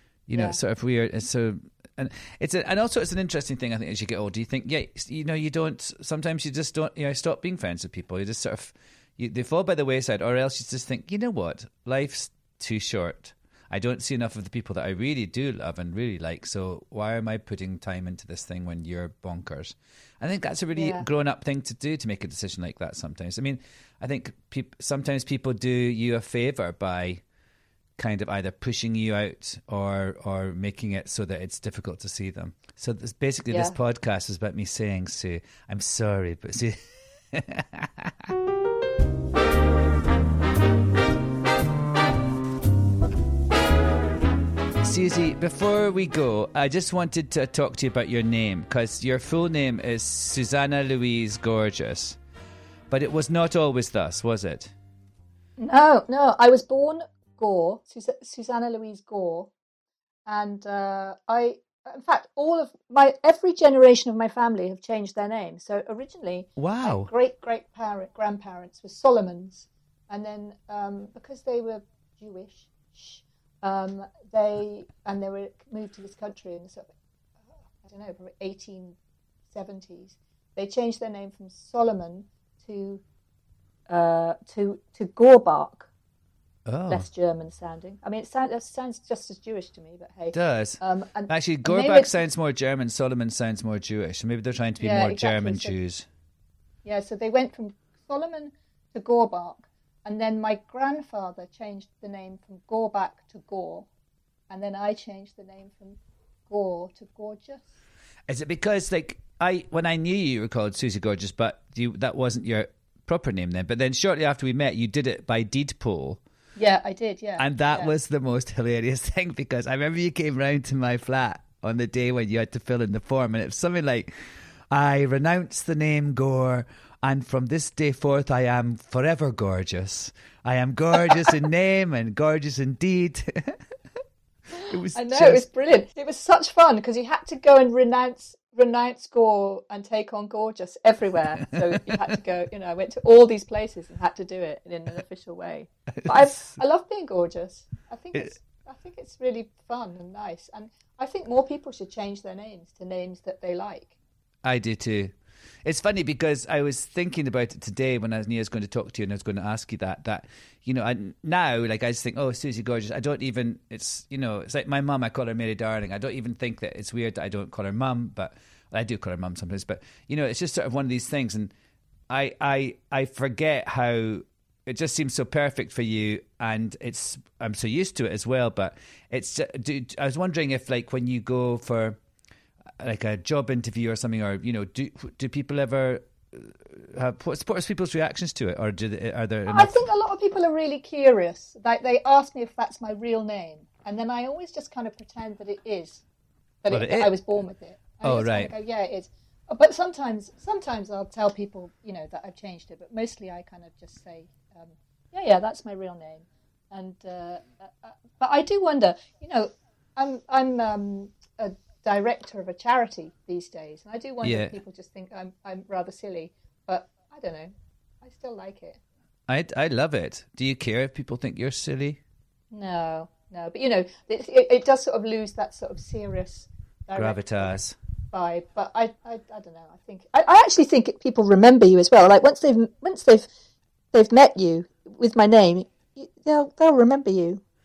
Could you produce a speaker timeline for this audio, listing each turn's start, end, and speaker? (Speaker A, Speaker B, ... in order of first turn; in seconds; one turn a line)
Speaker A: 0.3-27.2
Speaker B: 20.7-21.0
Speaker A: 28.0-38.3
Speaker A: 44.8-52.2
Speaker A: 52.9-54.7
Speaker B: 55.6-59.5
Speaker B: 60.2-76.9
Speaker A: 66.6-67.1
Speaker B: 77.4-79.0
Speaker B: 79.5-83.0
Speaker B: 83.9-85.9
Speaker A: 86.7-87.1
Speaker B: 86.9-92.1
Speaker A: 90.3-96.0
Speaker B: 94.8-95.7
Speaker B: 96.8-103.9
Speaker B: 104.5-107.7
Speaker A: 108.3-116.2
Speaker B: 116.5-117.9
Speaker A: 117.4-124.1
Speaker A: 124.7-133.6
Speaker A: 134.7-135.4
Speaker B: 134.9-153.9
Speaker A: 146.1-146.5
Speaker A: 154.4-155.1
Speaker A: 155.6-171.5
Speaker A: 172.1-182.0
Speaker A: 182.8-189.9
Speaker B: 189.5-196.0
Speaker B: 196.6-218.8
Speaker A: 196.7-197.2
Speaker A: 198.0-198.5
Speaker A: 214.2-214.6
Speaker A: 219.3-222.0
Speaker B: 222.5-227.5
Speaker A: 226.9-227.7
Speaker B: 228.1-233.3
Speaker B: 233.9-237.4